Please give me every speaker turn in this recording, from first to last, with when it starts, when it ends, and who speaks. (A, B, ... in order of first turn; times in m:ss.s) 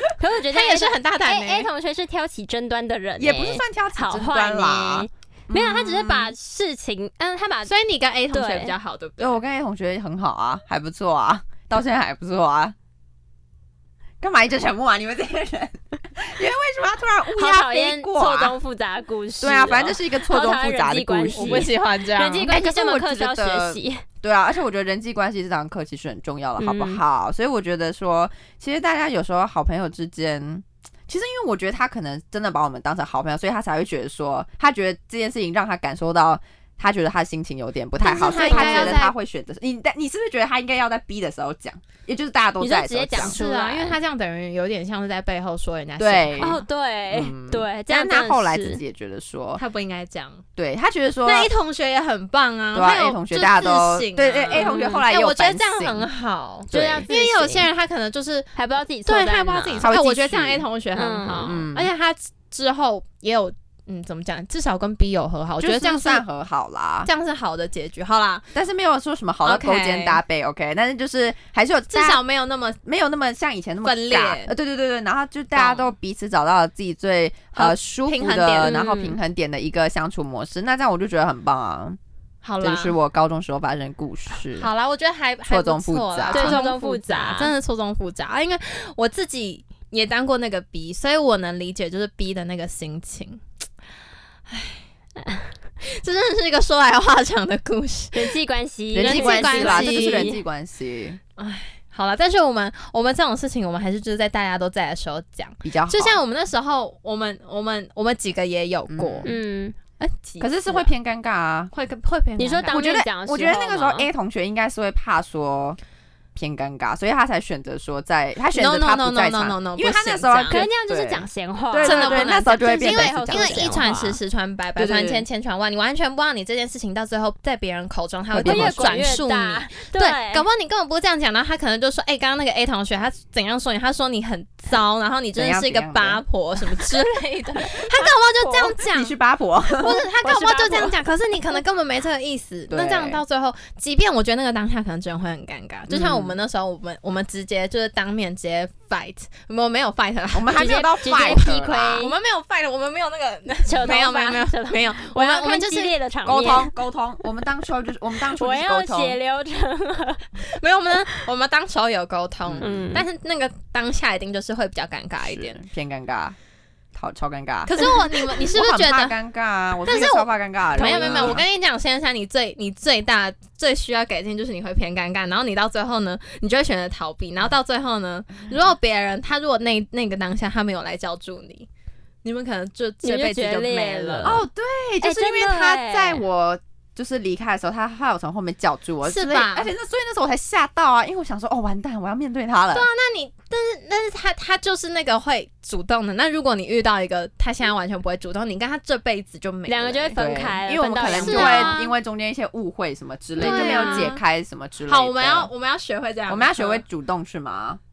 0:00.2-0:07.7 A
0:00.5-0:01.7 B
0:03.2-0:06.3 C
0:07.7-0:09.4 B
0:08.3-0:08.7 A
0:09.2-0:12.7 C
0:14.2-0:18.6 C
0:17.4-0:24.0 A
0:19.4-0:21.7 C
0:21.3-0:22.5 B
0:22.4-0:43.4 C
0:26.6-0:27.0 A
0:38.0-0:39.1 B
0:38.5-0:39.0 A
0:42.6-0:44.0 A
0:43.2-0:46.6 B
0:46.0-0:49.6 C
0:46.4-0:48.8 A
0:49.6-0:50.4 B
0:50.6-0:51.5 C
0:51.2-0:58.5 B
0:52.7-0:56.1 C
0:54.5-0:55.0 A
0:56.7-0:57.1 C
0:56.7-0:57.6 A
0:58.6-0:59.9 A
0:59.0-1:06.2 B
0:59.8-1:00.6 C
1:00.9-1:01.6 A
1:01.4-1:01.9 C
1:05.6-1:07.1 C
1:07.0-1:08.5 B
1:08.5-1:12.2 C
1:09.4-1:10.2 B
1:11.9-1:12.8 B
1:12.8-1:22.0 C
1:13.8-1:14.5 B
1:15.6-1:15.9 B
1:17.5-1:18.8 B
1:18.6-1:19.2 A
1:22.4-1:23.0 B
1:22.6-1:24.7 C
1:24.5-1:33.4 B
1:25.5-1:26.6 C
1:26.3-1:27.5 A
1:34.5-1:34.8 B
1:35.2-1:35.5 A
1:35.8-1:38.4 B
1:38.1-1:40.4 A
1:38.9-1:41.2 C
1:39.0-1:40.3 B
1:41.4-1:49.3 B
1:45.6-1:46.2 C
1:48.9-1:49.3 C
1:49.2-1:49.8 A
1:50.0-1:50.9 B
1:50.4-1:51.7 C
1:51.7-1:52.8 B
1:52.4-1:54.1 A
1:52.7-1:55.8 C
1:56.3-2:03.8 C
1:58.5-2:00.7 B
2:00.5-2:04.2 A
2:01.8-2:19.1 B
2:04.8-2:05.2 C
2:08.3-2:09.0 C
2:08.4-2:10.4 A
2:15.3-2:16.2 C
2:17.8-2:18.8 A
2:18.9-2:20.0 C
2:19.7-2:30.8 B
2:20.2-2:20.9 A
2:22.7-2:23.2 C
2:25.9-2:26.4 C
2:30.3-2:32.0 C
2:30.5-2:32.1 A
2:32.0-2:35.9 B
2:33.6-2:36.7 A
2:36.2-2:39.2 C
2:38.3-2:40.3 A
2:40.4-2:45.6 B
2:42.4-2:42.8 C
2:42.6-2:43.0 A
2:45.2-2:46.4 C
2:46.9-2:51.4 C
2:47.6-2:49.2 B
2:49.8-3:01.7 B
2:50.8-2:51.4 A
3:02.2-3:04.4 B
3:03.0-3:04.4 A
3:04.2-3:12.9 C
3:05.0-3:06.2 A
3:09.0-3:09.7 B
3:12.7-3:20.2 B
3:19.7-3:21.8 A
3:20.1-3:25.5 C
3:21.0-3:21.9 B
3:23.4-3:24.2 B
3:23.4-3:24.1 A
3:24.8-3:26.8 B
3:26.3-3:27.8 C